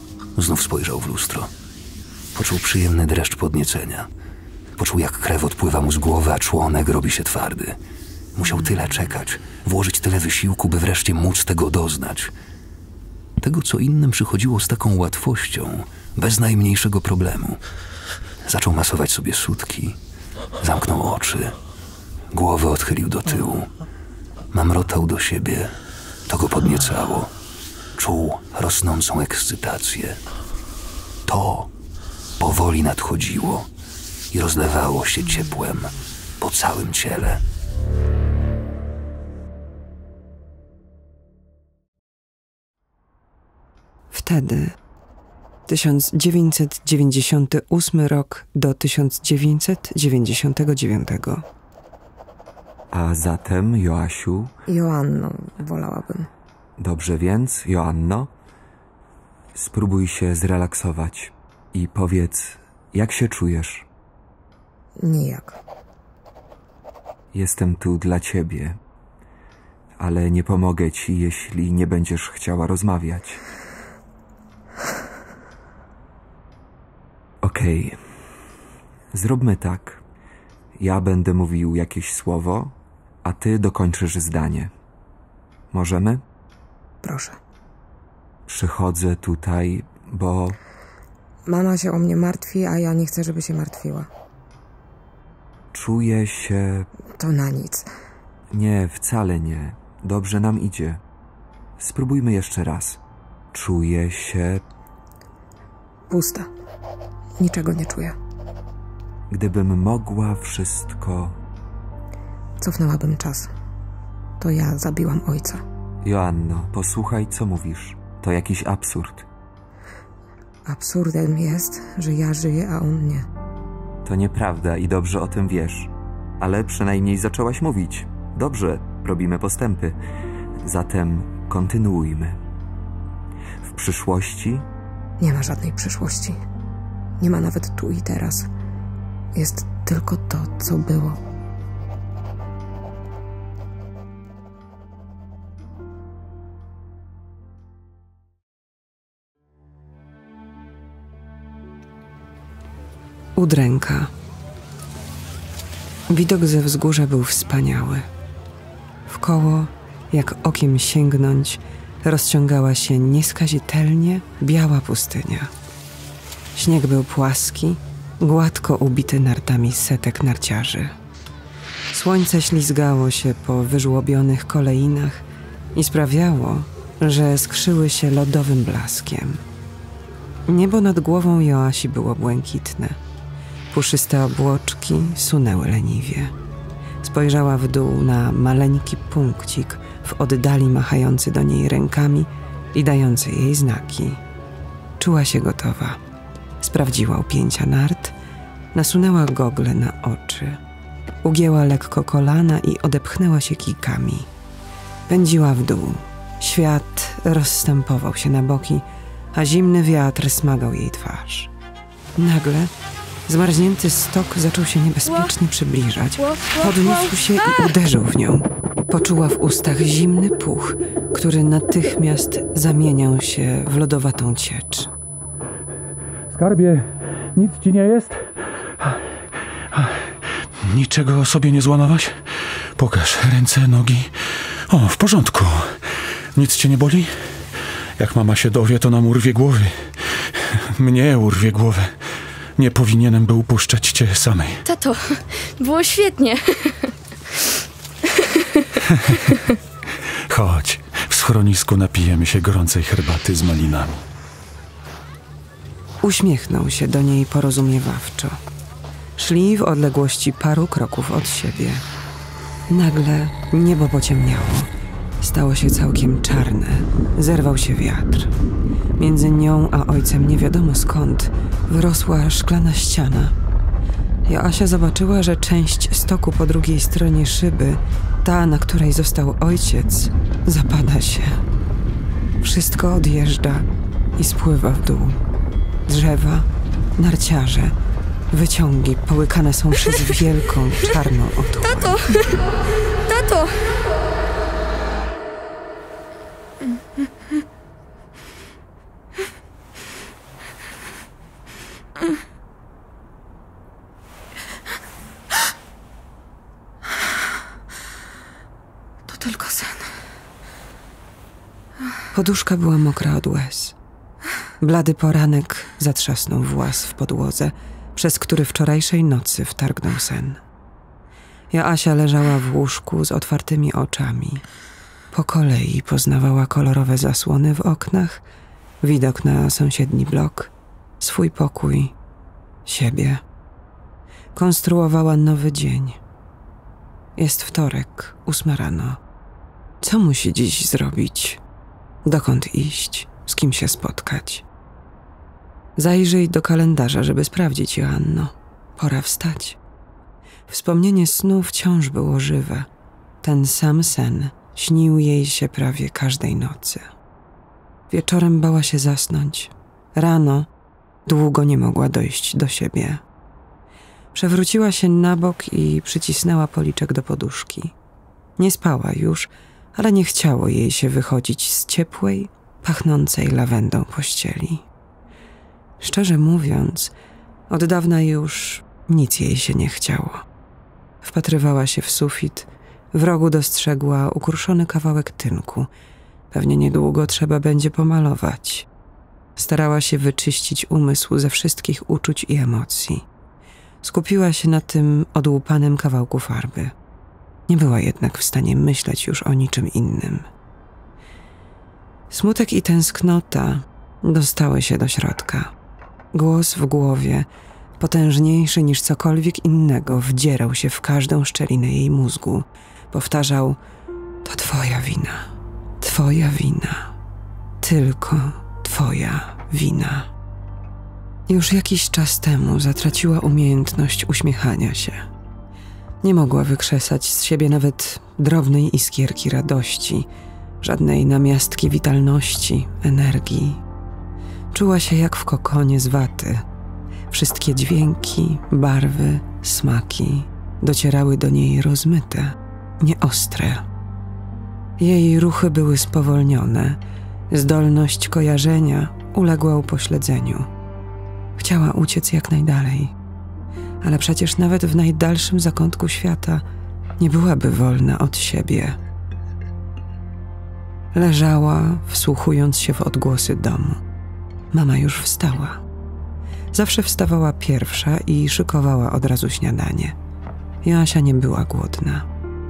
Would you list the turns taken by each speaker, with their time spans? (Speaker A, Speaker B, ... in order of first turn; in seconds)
Speaker A: 0.3-1.5, 2.3-4.1, 4.8-7.8, 8.3-12.3, 13.4-17.6, 18.4-20.0, 20.6-21.6, 22.3-23.7, 24.5-27.3, 27.9-30.2, 31.3-31.7, 32.4-33.7, 34.3-37.4
Speaker B: 44.1-44.8, 45.7-51.5, 153.4-154.1, 156.1-158.1, 159.1-165.5, 166.6-170.9, 171.9-175.2, 175.8-179.4, 180.5-183.0, 183.7-186.3, 187.0-194.2, 195.0-196.0, 196.6-198.2, 198.7-200.6, 201.2-204.3, 205.1-211.5, 212.2-212.7, 213.3-224.9, 256.0-258.4, 259.2-261.9, 262.7-264.7, 265.2-268.3, 269.0-273.4, 274.3-281.4, 282.4-285.2, 285.9-286.5, 287.0-287.8, 288.3-292.2, 312.1-313.8, 314.6-320.4, 321.5-324.4, 325.1-328.2, 328.8-331.9, 332.7-333.2, 334.4-336.0, 337.2-339.0, 339.8-341.4, 342.1-344.5, 345.8-349.6, 350.5-352.7, 353.2-356.9, 357.9-360.5, 361.1-363.0, 364.1-367.8, 368.4-374.7, 375.8-376.9, 377.5-380.2, 381.0-385.7, 386.3-388.7, 389.4-393.1, 393.8-396.7, 397.5-400.3, 402.1-405.5, 406.1-407.3, 407.8-413.6, 414.2-415.3, 415.8-416.9, 417.6-420.1, 421.3-425.1, 426.0-430.1, 430.6-433.6, 434.5-436.4, 437.1-443.7, 444.8-446.8, 447.3-450.5, 451.4-452.9, 453.8-456.4, 457.0-458.8, 460.9-463.8, 464.5-465.6, 466.5-470.0, 470.6-472.1
Speaker C: 52.9-54.5, 56.8-58.3, 59.5-63.9, 67.3-68.8, 70.0-73.4, 77.4-78.0, 79.1-80.0, 80.8-84.7, 85.7-86.2, 88.5-90.6, 95.7-96.9, 98.5-101.0, 101.8-103.0, 103.5-104.6, 109.3-111.4, 116.0-119.3, 124.0-130.0, 130.6-132.4, 133.7-134.7
Speaker D: 54.7-56.3, 65.0-65.6, 87.0-87.4, 91.5-94.1, 97.2-97.9, 106.1-106.5, 107.4-108.2, 112.6-113.5, 114.4-115.6, 120.7-123.3, 135.2-136.4, 137.2-138.5, 139.3-141.2, 309.1-309.9
Speaker E: 216.2-217.7, 244.7-246.9, 248.1-248.7, 291.7-292.3, 293.1-293.7
Speaker F: 226.3-234.1, 234.7-242.0, 242.6-244.7, 250.3-254.0